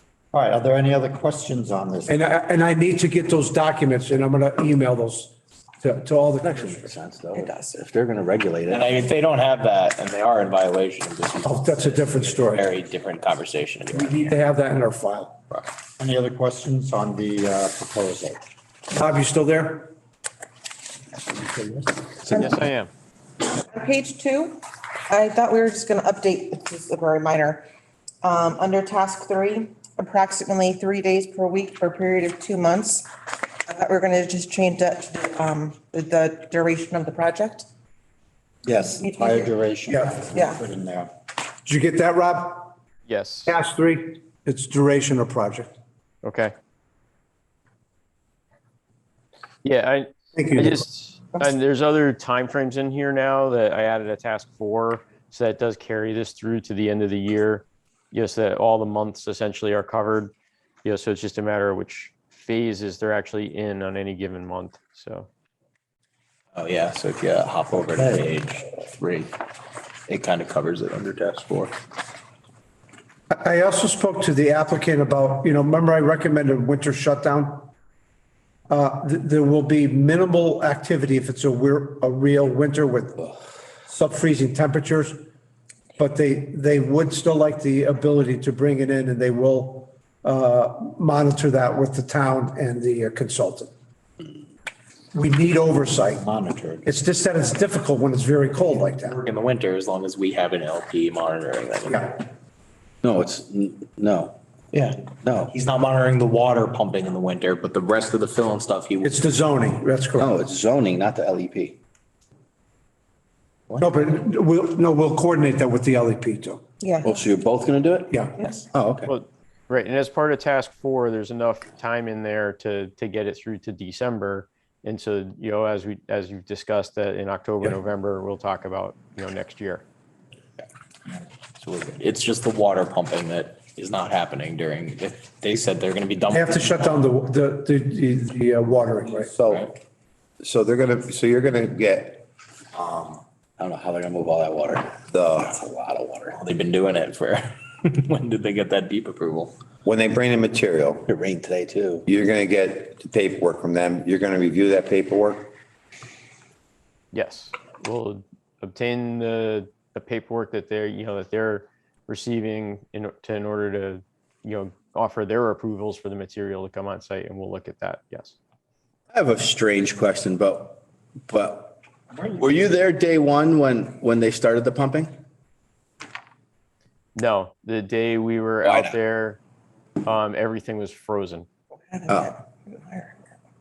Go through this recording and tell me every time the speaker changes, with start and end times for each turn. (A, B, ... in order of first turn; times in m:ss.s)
0:00.3-0:02.1 A
0:02.1-0:07.0 B
0:06.4-0:08.9 C
0:07.3-0:07.8 D
0:08.7-0:14.3 E
0:11.4-0:12.7 B
0:13.9-0:15.4 B
0:16.0-0:18.4 A
0:18.9-0:19.9 B
0:21.4-0:21.9 A
0:22.3-0:22.6 D
0:22.4-0:22.9 F
0:23.4-0:27.6 D
0:28.2-0:37.7 D
0:38.6-0:41.1 A
0:39.0-0:39.6 D
0:40.3-0:40.6 D
0:41.7-0:42.8 B
0:43.1-0:43.6 F
0:43.5-0:45.8 B
0:46.2-0:46.5 F
0:49.6-1:00.3 F
0:50.4-0:50.8 B
1:00.8-1:05.3 F
1:06.6-1:09.3 E
1:10.1-1:11.7 E
1:13.3-1:17.7 B
1:18.7-1:23.3 B
1:23.9-1:25.2 B
1:26.0-1:33.7 B
1:35.1-1:36.2 B
1:36.1-1:36.9 A
1:36.8-1:39.2 B
1:39.0-1:42.1 E
1:43.0-1:44.4 C
1:44.7-1:49.2 E
1:45.2-1:45.6 C
1:49.0-1:50.3 B
1:50.2-1:51.8 C
1:53.8-1:56.6 B
1:56.8-1:57.2 D
1:57.0-1:59.1 C
1:58.4-1:58.7 D
1:59.1-2:09.8 F
2:11.6-2:16.9 E
2:16.3-2:19.3 B
2:19.3-2:19.7 G
2:20.4-2:23.2 G
2:23.9-2:24.9 E
2:25.1-2:25.6 G
2:25.6-2:26.4 C
2:25.7-2:26.1 A
2:26.3-2:29.5 E
2:29.8-2:31.1 G
2:31.1-2:31.9 E
2:32.1-2:35.5 G
2:37.1-2:48.3 F
2:49.1-2:55.1 C
2:57.1-2:59.4 F
2:58.6-2:58.9 C
3:00.0-3:01.5 F
3:01.9-3:03.2 D